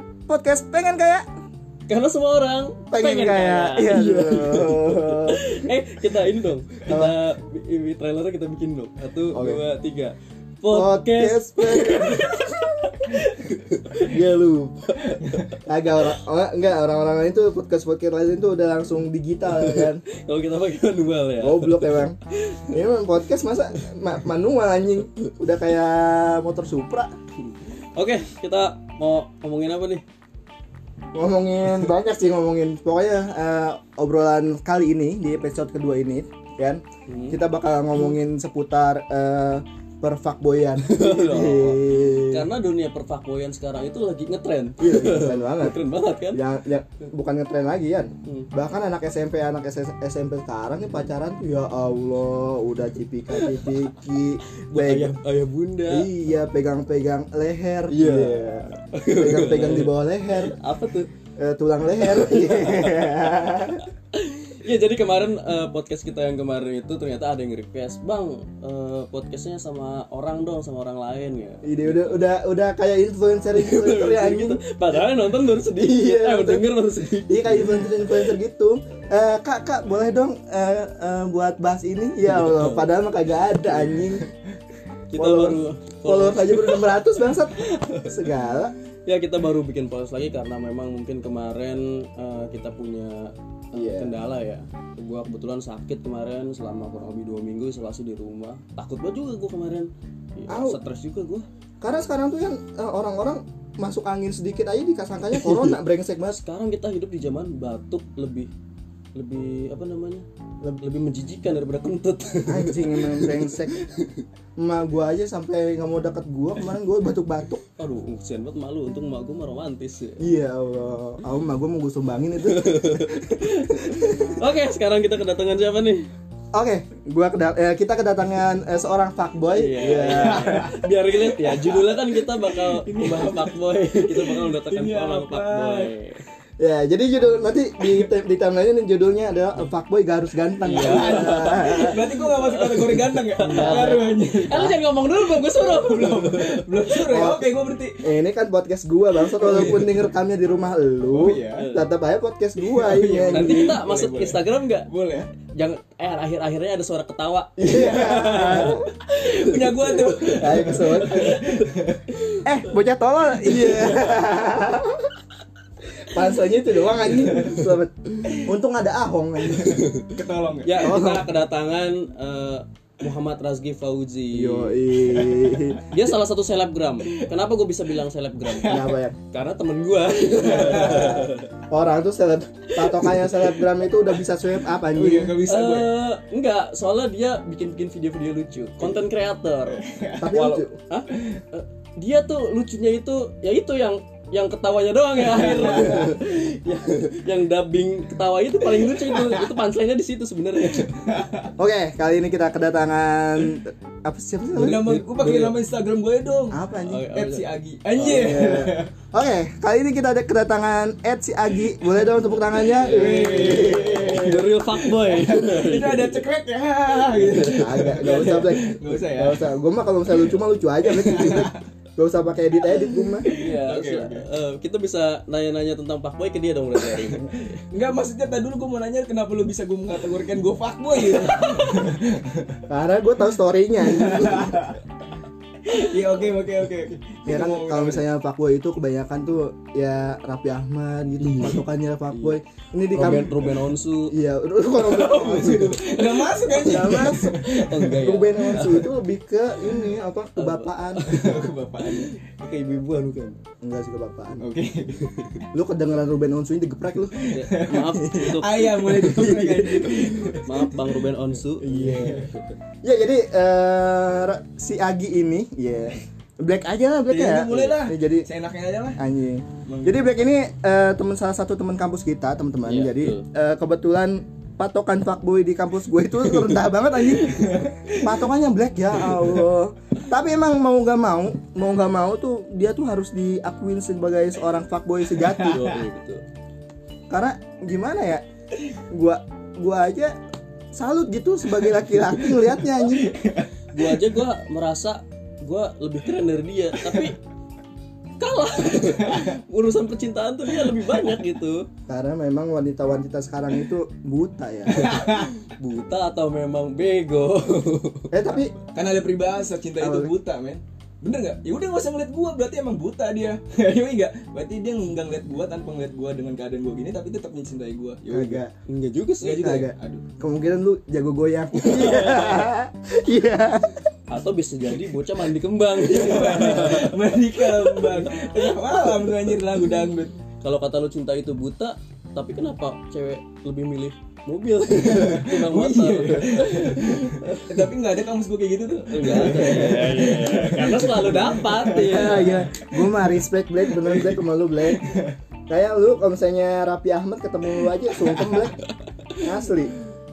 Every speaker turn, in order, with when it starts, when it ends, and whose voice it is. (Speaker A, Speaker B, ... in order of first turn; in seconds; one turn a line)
Speaker A: 0.3-1.3
Speaker B: 1.9-14.2
Speaker A: 2.9-5.7
Speaker A: 6.9-7.2
Speaker A: 9.3-9.6
Speaker A: 10.7-13.2
Speaker A: 13.9-14.9
Speaker B: 14.9-15.6
Speaker A: 15.7-20.0
Speaker B: 19.6-22.7
Speaker A: 21.4-22.2
Speaker A: 22.7-27.1
Speaker B: 27.9-30.0
Speaker A: 31.1-42.5
Speaker B: 37.1-37.4
Speaker B: 40.8-46.4
Speaker A: 44.8-45.8
Speaker A: 46.3-55.2
Speaker B: 53.3-53.7
Speaker B: 54.7-56.1
Speaker A: 55.9-60.6
Speaker B: 57.9-61.1
Speaker A: 61.4-63.9
Speaker B: 62.0-63.6
Speaker B: 64.1-72.2
Speaker A: 71.6-74.6
Speaker B: 73.5-78.1
Speaker A: 75.8-76.7
Speaker A: 77.2-84.3
Speaker B: 82.3-82.9
Speaker B: 85.1-87.0
Speaker A: 85.2-88.7
Speaker B: 87.6-88.1
Speaker B: 89.1-101.5
Speaker A: 93.8-94.2
Speaker A: 100.5-100.8
Speaker A: 101.8-106.4
Speaker B: 105.3-108.5
Speaker B: 109.2-110.2
Speaker B: 110.8-114.1
Speaker A: 112.5-113.8
Speaker A: 114.6-117.6
Speaker B: 117.8-120.2
Speaker A: 120.2-124.4
Speaker B: 122.5-126.1
Speaker A: 126.5-130.7
Speaker B: 129.5-136.2
Speaker C: 130.0-130.7
Speaker C: 131.4-135.9
Speaker A: 136.6-142.0
Speaker B: 140.7-146.7
Speaker C: 140.8-148.1
Speaker A: 143.4-144.8
Speaker A: 147.1-153.8
Speaker C: 149.3-150.0
Speaker C: 151.1-151.7
Speaker B: 151.6-151.9
Speaker C: 152.7-155.3
Speaker B: 153.3-154.9
Speaker B: 155.5-162.4
Speaker A: 157.6-158.9
Speaker C: 157.7-162.1
Speaker A: 160.3-161.4
Speaker A: 162.4-165.2
Speaker B: 163.5-164.1
Speaker A: 166.0-169.9
Speaker B: 167.3-167.6
Speaker C: 169.6-171.0
Speaker B: 170.6-174.8
Speaker A: 170.8-171.2
Speaker A: 174.3-175.8
Speaker C: 175.1-175.5
Speaker B: 175.9-181.5
Speaker C: 178.5-178.9
Speaker A: 178.7-179.2
Speaker C: 180.4-181.2
Speaker A: 180.6-185.4
Speaker B: 182.7-183.6
Speaker C: 184.9-185.9
Speaker B: 185.5-201.1
Speaker C: 189.7-190.6
Speaker A: 190.2-190.8
Speaker C: 195.3-196.3
Speaker C: 198.8-199.5
Speaker C: 200.9-201.5
Speaker A: 201.6-205.1
Speaker C: 204.5-208.9
Speaker B: 204.7-205.6
Speaker A: 206.5-207.1
Speaker B: 206.8-208.4
Speaker A: 208.0-214.4
Speaker B: 212.7-216.2
Speaker C: 212.7-219.4
Speaker B: 217.1-217.6
Speaker A: 217.3-223.3
Speaker C: 220.8-221.6
Speaker C: 223.1-224.2
Speaker B: 223.2-227.6
Speaker C: 226.9-232.6
Speaker B: 231.1-231.8
Speaker A: 232.7-234.7
Speaker C: 233.9-234.8
Speaker C: 235.7-238.0
Speaker A: 237.3-245.8
Speaker B: 241.2-241.6
Speaker B: 242.9-244.2
Speaker B: 244.8-248.9
Speaker C: 244.9-248.0
Speaker A: 246.5-251.1
Speaker B: 250.4-253.4
Speaker C: 251.1-252.2
Speaker A: 253.6-254.5
Speaker C: 254.4-255.4
Speaker A: 255.5-257.1
Speaker C: 257.1-260.7
Speaker B: 257.2-259.1
Speaker A: 258.9-260.4
Speaker B: 260.4-262.5
Speaker A: 261.6-262.3
Speaker C: 261.8-262.3
Speaker A: 262.8-268.3
Speaker C: 267.1-269.0
Speaker A: 269.0-285.7
Speaker C: 269.7-270.0
Speaker B: 272.6-273.3
Speaker C: 277.1-278.1
Speaker B: 285.3-286.2
Speaker A: 287.1-288.2
Speaker A: 288.9-290.2
Speaker A: 290.7-293.1
Speaker C: 292.4-293.5
Speaker B: 293.7-297.2
Speaker B: 298.2-301.7
Speaker C: 298.9-299.3
Speaker A: 301.9-305.0
Speaker C: 304.7-305.3
Speaker B: 304.9-308.1
Speaker A: 308.1-308.5
Speaker C: 308.7-318.4
Speaker A: 309.8-310.1
Speaker A: 318.1-318.5
Speaker B: 318.7-319.5
Speaker C: 319.2-320.1
Speaker A: 319.3-323.8
Speaker B: 321.6-322.5
Speaker B: 324.1-328.5
Speaker C: 325.8-330.1
Speaker B: 330.4-337.6
Speaker C: 334.8-343.0
Speaker B: 338.9-342.5
Speaker A: 341.7-345.0
Speaker C: 343.7-345.2
Speaker A: 345.5-348.6
Speaker A: 349.2-349.8